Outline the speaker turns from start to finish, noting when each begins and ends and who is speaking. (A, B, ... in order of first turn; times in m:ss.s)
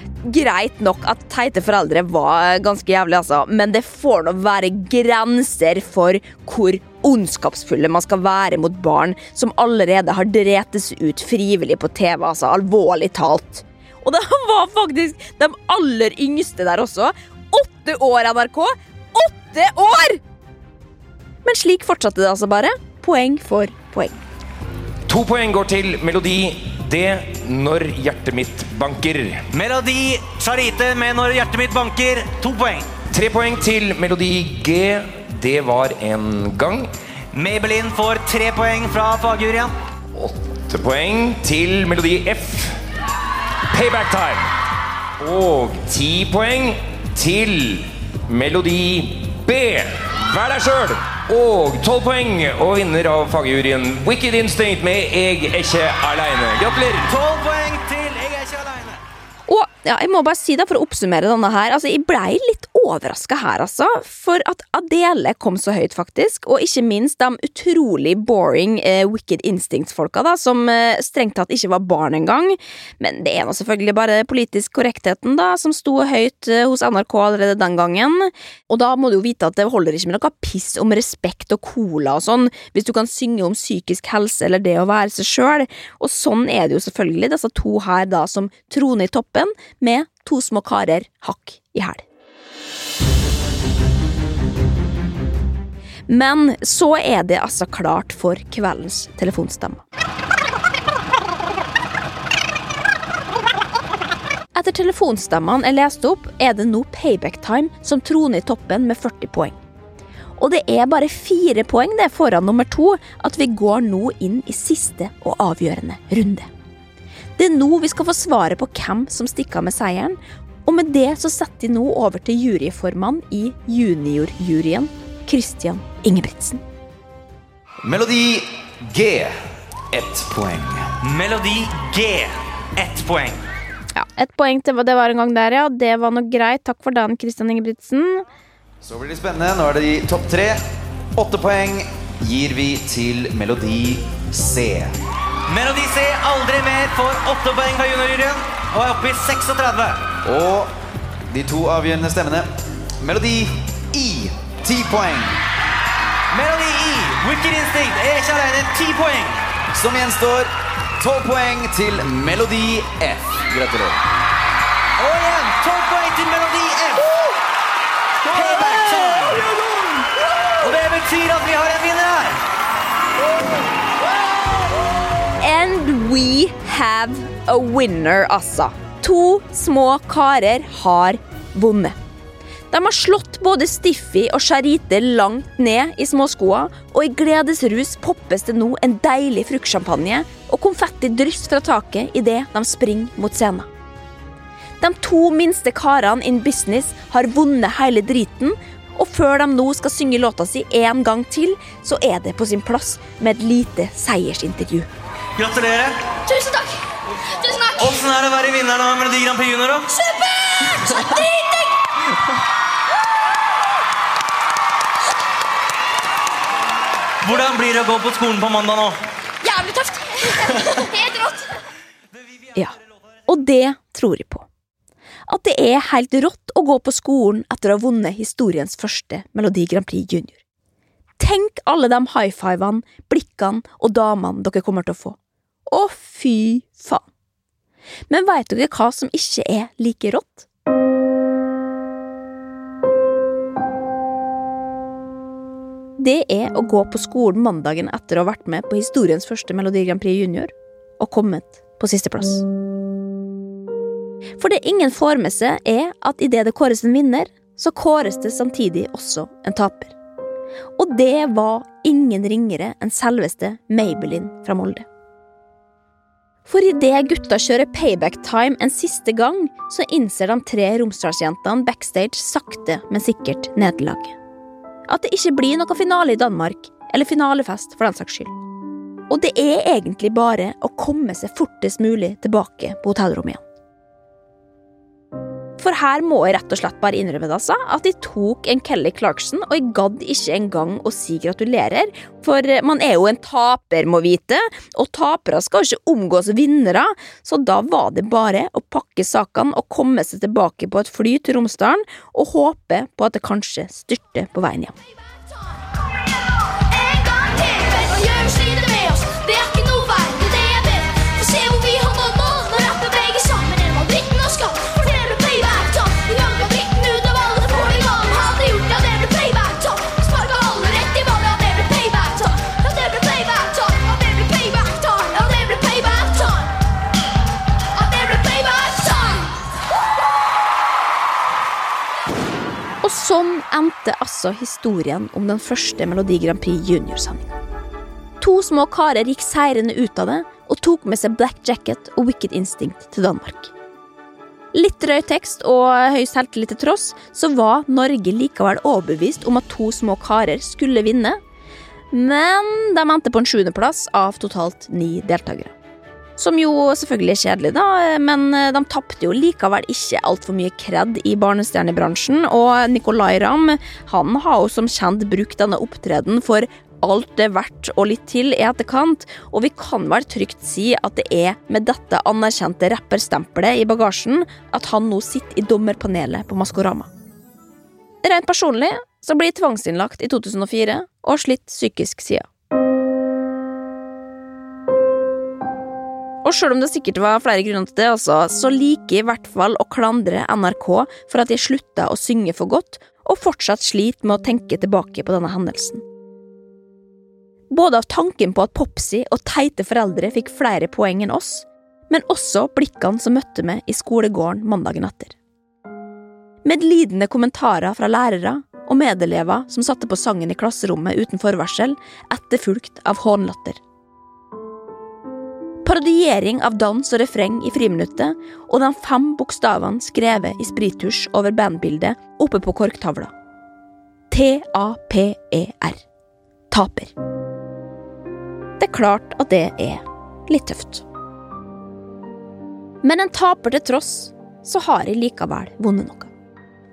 0:00.2-0:20.2 A
0:21.4-0:24.2 A
0:25.1-0:29.5 B
0:29.5-0:32.9 C
0:33.1-0:36.9 B
0:37.3-0:39.7 C
0:40.1-0:42.7 B
0:43.7-0:44.5 B
0:45.2-0:57.1 B
0:57.0-0:59.0 C
0:59.5-1:32.0 A
1:36.1-1:39.8 A
1:44.6-1:49.6 A
1:50.4-1:56.5 A
1:57.4-2:06.6 A
2:07.8-2:09.3 D
2:09.9-2:10.9 D
2:11.0-2:13.4 C
2:14.0-2:18.2 A
2:18.8-2:20.6 D
2:21.2-2:24.9 D
2:25.5-2:30.1 C
2:30.2-2:30.7 D
2:31.3-2:32.5 D
2:33.0-2:35.4 D
2:36.3-2:39.4 C
2:39.7-2:44.0 D
2:45.0-2:47.1 C
2:48.3-2:49.5 C
2:50.6-2:52.4 C
2:55.4-3:02.0 A
3:02.7-3:13.7 A
3:14.8-3:24.9 A
3:25.4-3:26.0 C
3:26.3-3:26.8 E
3:27.3-3:27.9 E
3:27.8-3:29.9 C
3:29.9-3:31.7 E
3:37.2-3:39.0 C
3:39.4-3:41.5 E
3:43.3-3:44.5 A
3:45.3-3:50.4 A
3:51.2-3:55.2 A
3:55.7-3:57.0 A
3:58.1-4:00.5 A
4:06.0-4:12.4 A
4:14.4-4:19.9 A
4:20.8-4:24.8 A
4:26.5-4:34.2 A
4:34.9-4:38.3 A
4:39.1-4:43.4 A
4:45.6-5:04.7 A
5:06.7-5:26.5 E
5:27.8-5:29.3 E
5:32.8-5:37.4 A
5:38.2-5:43.5 A
5:44.5-5:51.2 A
5:51.9-5:55.5 A
5:56.2-6:16.9 A
6:18.0-6:22.3 A
6:26.2-6:35.8 A
6:37.5-6:45.2 A
6:46.4-6:53.6 A
6:55.6-7:03.1 A
7:04.1-7:05.8 A
7:06.5-7:06.9 A
7:08.6-7:10.8 A
7:12.8-7:16.1 A